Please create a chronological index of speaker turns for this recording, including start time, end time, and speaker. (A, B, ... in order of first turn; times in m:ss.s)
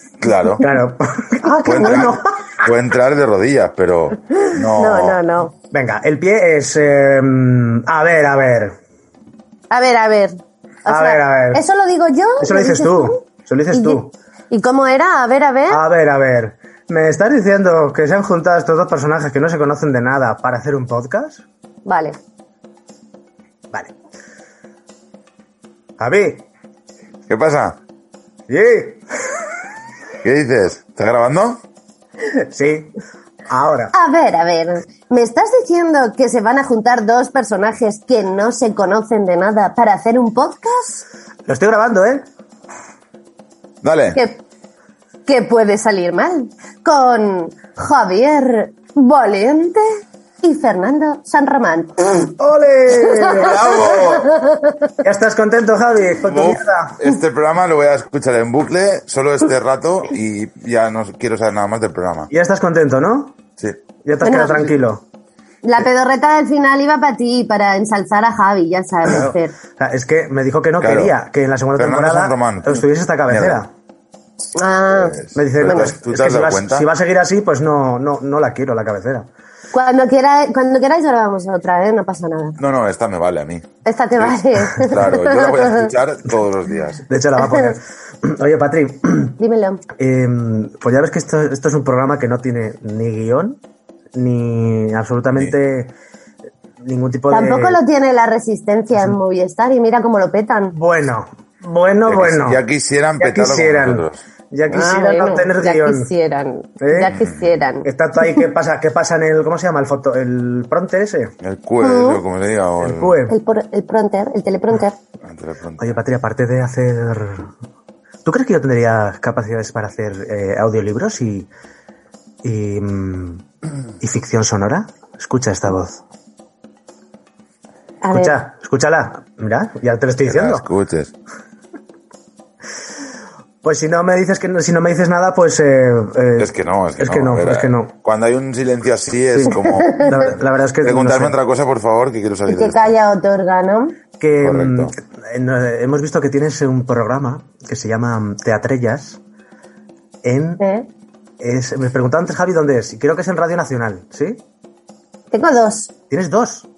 0:00.2-0:00.7 A
0:00.6-0:02.3 B
0:01.6-0:05.2 A
0:01.8-0:02.1 C
0:04.3-0:05.5 C
0:05.7-0:08.8 B
0:09.7-0:13.2 C
0:10.9-0:11.6 B
0:12.4-0:14.1 B
0:13.7-0:15.8 C
0:15.7-0:21.4 B
0:21.9-0:22.2 C
0:26.0-0:26.5 B
0:27.3-0:27.8 A
0:28.5-0:29.0 B
0:30.2-0:31.6 A
0:32.3-0:32.9 B
0:33.5-0:33.9 B
0:33.9-0:41.0 C
0:41.5-0:42.2 B
0:43.8-0:44.2 A
0:44.2-0:44.4 C
0:45.3-0:52.1 C
0:52.4-0:53.7 B
0:52.9-0:55.0 C
0:53.3-0:54.3 A
0:55.0-0:57.0 B
0:56.2-1:02.3 A
1:02.3-1:03.4 B
1:04.0-1:05.0 B
1:04.2-1:04.7 C
1:05.6-1:09.6 C
1:09.1-1:13.7 B
1:10.8-1:11.1 A
1:11.8-1:13.6 A
1:14.6-1:15.9 C
1:15.0-1:16.9 A
1:15.3-1:19.3 B
1:19.7-1:22.6 C
1:22.6-1:27.0 A
1:23.8-1:25.9 C
1:27.1-1:29.4 B
1:27.4-1:27.7 C
1:29.4-1:29.8 C
1:30.0-1:33.6 B
1:34.1-1:35.9 B
1:36.8-1:37.8 B
1:37.3-1:40.8 C
1:40.7-1:42.6 B
1:42.1-1:44.2 A
1:43.2-1:46.1 B
1:44.7-1:48.3 C
1:46.8-1:47.1 B
1:47.1-1:47.5 A
1:47.8-1:51.3 B
1:51.4-1:53.2 A
1:51.8-1:52.2 C
1:52.8-1:53.4 B
1:53.3-1:55.0 C
1:55.2-1:56.0 A
1:55.8-1:57.5 B
1:58.2-2:01.5 B
2:02.4-2:03.4 B
2:04.0-2:06.0 B
2:08.0-2:08.4 C
2:08.1-2:10.6 B
2:10.2-2:11.1 A
2:13.6-2:17.9 B
2:16.4-2:23.0 A
2:19.3-2:21.4 B
2:19.5-2:20.3 C
2:22.5-2:24.0 C
2:24.2-2:29.2 B
2:24.4-2:24.9 A
2:30.2-2:30.6 B
2:30.6-2:30.9 C
2:31.4-2:34.4 B
2:35.3-2:35.9 C
2:36.1-2:36.7 B